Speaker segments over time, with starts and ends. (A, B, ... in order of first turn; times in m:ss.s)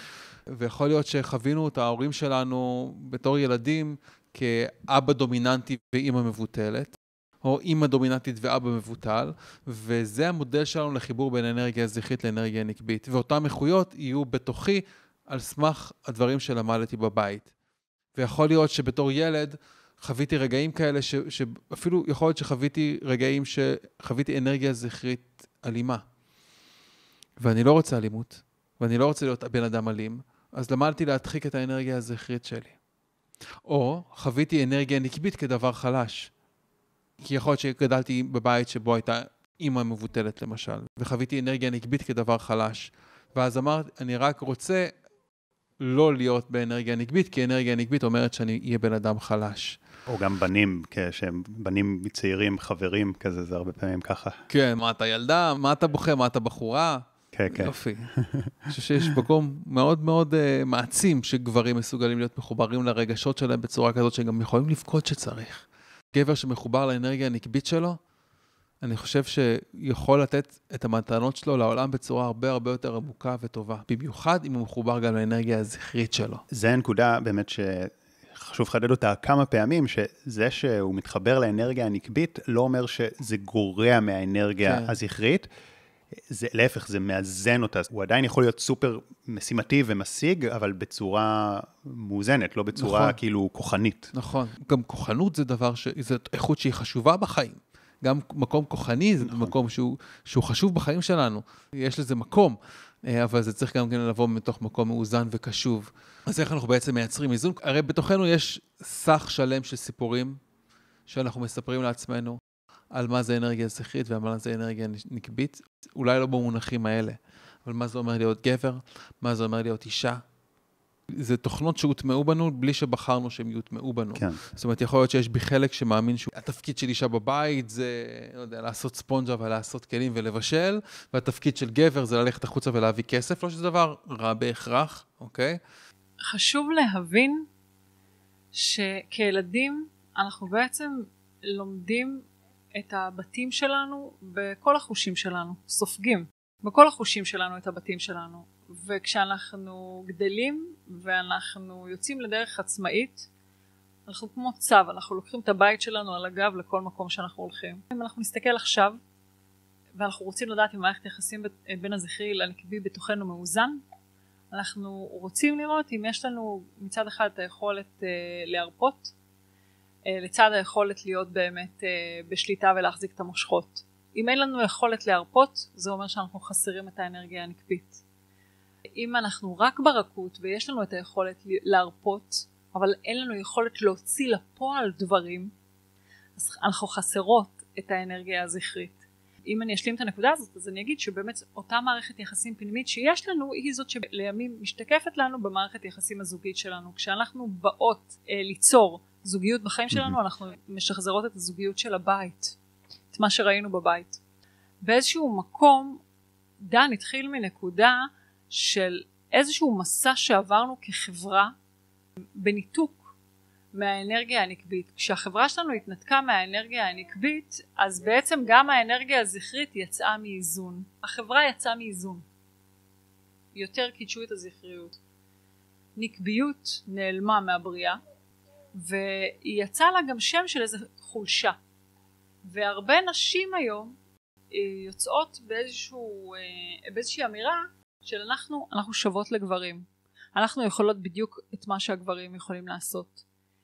0:00.6-0:17.5 A
0:18.2-0:26.0 A
0:27.4-0:32.8 A
0:33.7-0:36.3 A
0:37.2-0:44.9 A
0:45.8-0:49.8 A
0:50.1-0:54.4 B
0:54.5-0:58.1 A
0:57.3-0:58.7 B
0:58.7-1:08.0 A
1:08.8-1:16.4 A
1:16.5-1:25.5 B
1:24.6-1:24.9 A
1:26.2-1:34.1 B
1:32.8-1:33.2 A
1:34.1-1:50.4 A
1:39.2-1:39.5 B
1:51.1-1:52.4 A
1:52.9-2:00.2 A
2:01.2-2:15.6 A
2:16.2-2:17.5 C
2:18.5-2:22.2 C
2:22.8-2:33.3 C
2:34.1-2:39.0 C
2:40.0-2:43.8 C
2:44.5-2:49.1 C
2:50.1-2:58.0 C
2:59.0-3:05.5 C
3:06.4-3:22.6 C
3:19.9-3:20.2 B
3:23.1-3:24.2 C
3:24.8-3:26.0 C
3:26.6-3:31.5 C
3:32.4-3:33.1 C
3:33.7-3:42.2 C
3:43.6-3:45.0 C
3:46.0-3:48.0 C
3:48.7-3:51.6 C
3:52.4-3:54.0 C
3:54.5-4:03.2 C